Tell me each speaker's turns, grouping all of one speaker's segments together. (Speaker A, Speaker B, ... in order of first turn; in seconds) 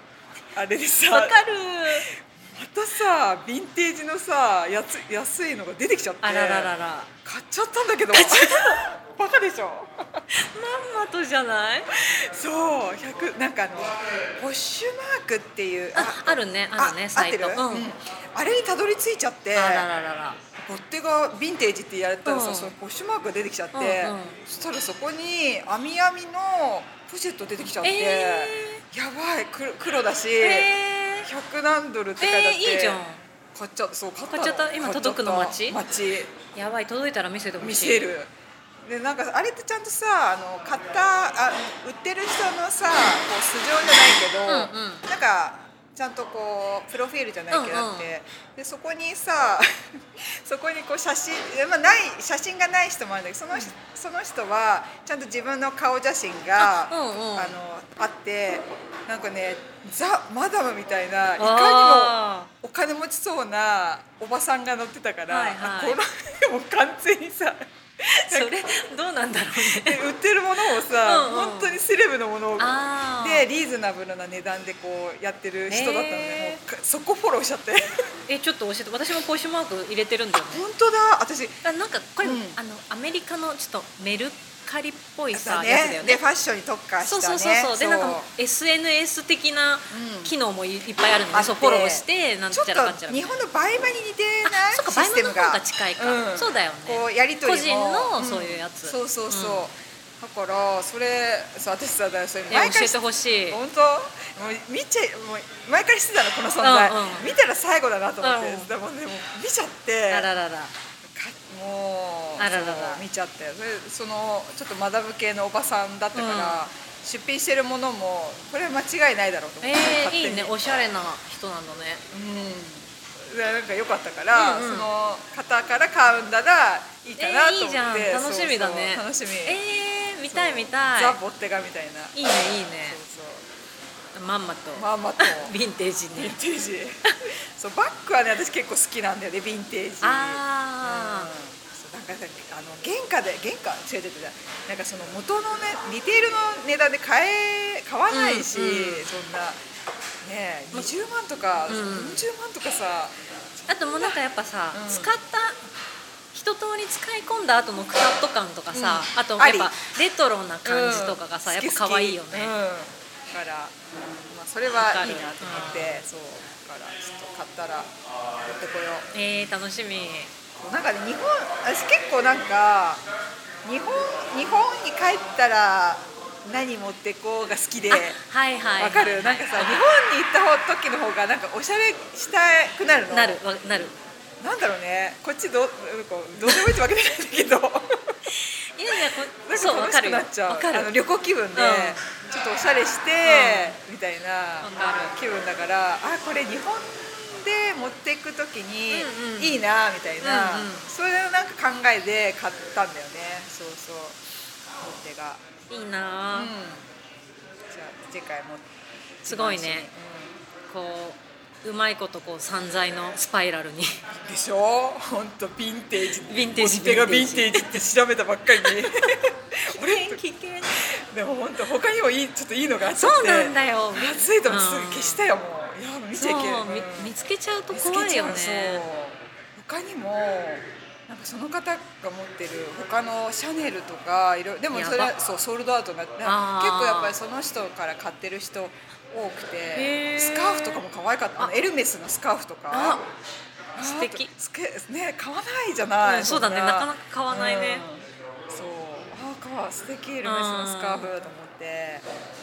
Speaker A: 0.5-6.7, 7.2-10.3, 12.0-19.9, 20.6-33.0, 33.5-36.4, 37.6-38.3, 38.8-68.7, 69.5-78.1, 80.5-81.6, 82.2-82.6, 85.3-88.3, 89.9-90.3, 91.3-103.0, 103.5-110.3, 111.0-120.5, 122.1-129.6, 130.3-132.2, 132.8-133.5, 134.8-135.6, 136.2-149.6, 150.2-154.2, 154.7-155.2, 158.7-159.8, 160.7-163.8, 164.3-169.1, 170.6-173.1, 173.6-178.2, 178.7-183.4, 184.4-188.3, 188.9-204.2, 204.8-205.4, 206.3-206.9, 207.7-208.7, 209.2-210.4, 214.1-227.1, 227.7-243.1, 243.8-252.1
Speaker B: 1.1-2.1, 6.2-7.1, 8.1-8.9, 10.3-11.9, 15.9-17.9, 19.6-20.4, 22.2-22.7, 23.7-24.4, 27.8-28.8, 30.4-31.3, 32.2-33.2, 34.3-35.8, 36.5-38.1, 44.5-45.0, 47.5-48.1, 56.6-57.6, 61.4-62.5, 65.3-66.0, 68.2-70.0, 71.0-71.8, 72.6-73.5, 75.7-76.6, 78.3-80.6, 81.6-86.2, 87.0-93.2, 94.5-99.7, 102.5-103.6, 106.6-107.3, 108.2-108.7, 110.1-110.7, 112.4-113.0, 116.1-116.6, 119.6-122.0, 124.3-124.9, 127.2-131.2, 132.1-133.0, 134.1-136.4, 140.0-141.3, 148.1-149.1, 151.7-152.3, 153.7-155.6, 156.3-162.5, 164.8-166.0, 169.1-170.3, 177.9-179.8, 183.1-183.9, 186.4-186.7, 188.4-190.9, 191.6-192.0, 193.2-193.8, 194.6-195.2, 198.9-199.7, 200.2-200.9, 205.7-206.5, 209.3-209.9, 210.7-214.0, 216.3-217.9, 218.6-218.9, 219.7-220.7, 222.9-225.2, 226.2-228.8, 234.7-235.1, 236.2-237.2, 239.7-240.8, 242.7-243.1, 243.8-244.3, 246.0-247.9, 250.2-251.1